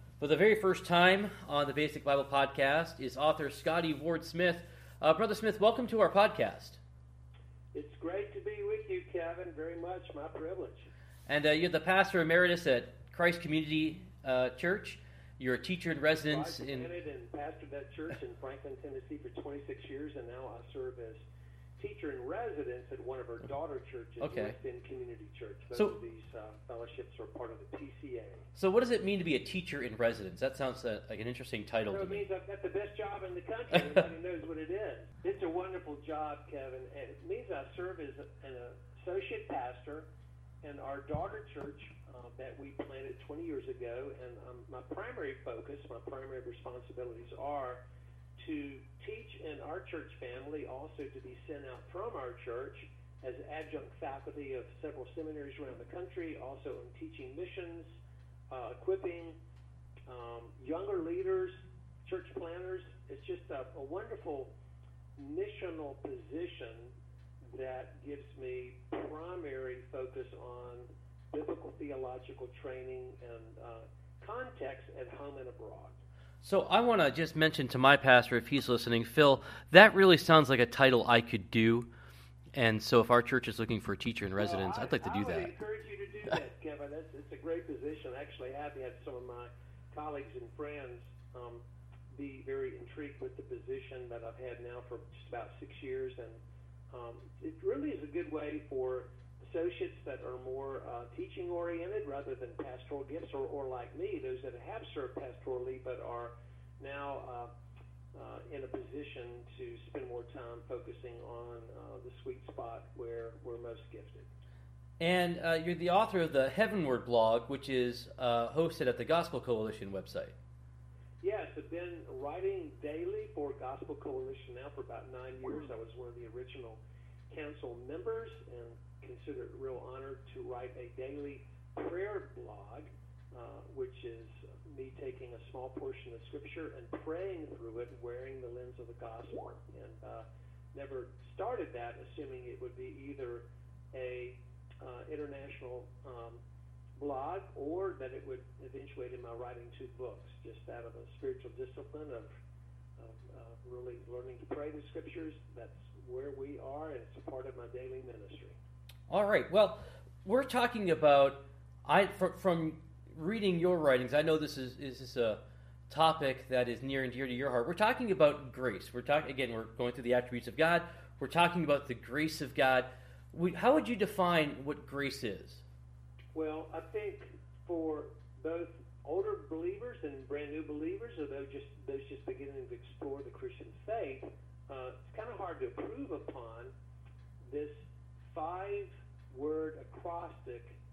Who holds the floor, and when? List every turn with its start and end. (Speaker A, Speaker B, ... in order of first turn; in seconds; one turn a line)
Speaker A: 0.2-6.8
Speaker B: 7.7-10.9
Speaker A: 11.3-16.9
Speaker B: 16.2-21.2
Speaker B: 21.8-28.5
Speaker A: 24.2-24.5
Speaker A: 28.5-32.2
Speaker B: 31.9-40.1
Speaker B: 40.6-47.8
Speaker B: 48.4-57.9
Speaker B: 58.5-59.4
Speaker B: 60.1-64.5
Speaker B: 65.2-66.9
Speaker B: 67.5-76.0
Speaker A: 76.4-81.9
Speaker A: 82.5-85.5
Speaker B: 84.4-91.6
Speaker B: 92.1-96.4
Speaker B: 96.9-107.5
Speaker B: 108.1-114.3
Speaker A: 115.0-120.3
Speaker B: 121.2-126.8
Speaker B: 127.3-146.4
Speaker B: 147.0-152.3
Speaker B: 153.0-158.6
Speaker A: 159.1-175.6
Speaker B: 176.3-186.7
Speaker B: 187.5-190.8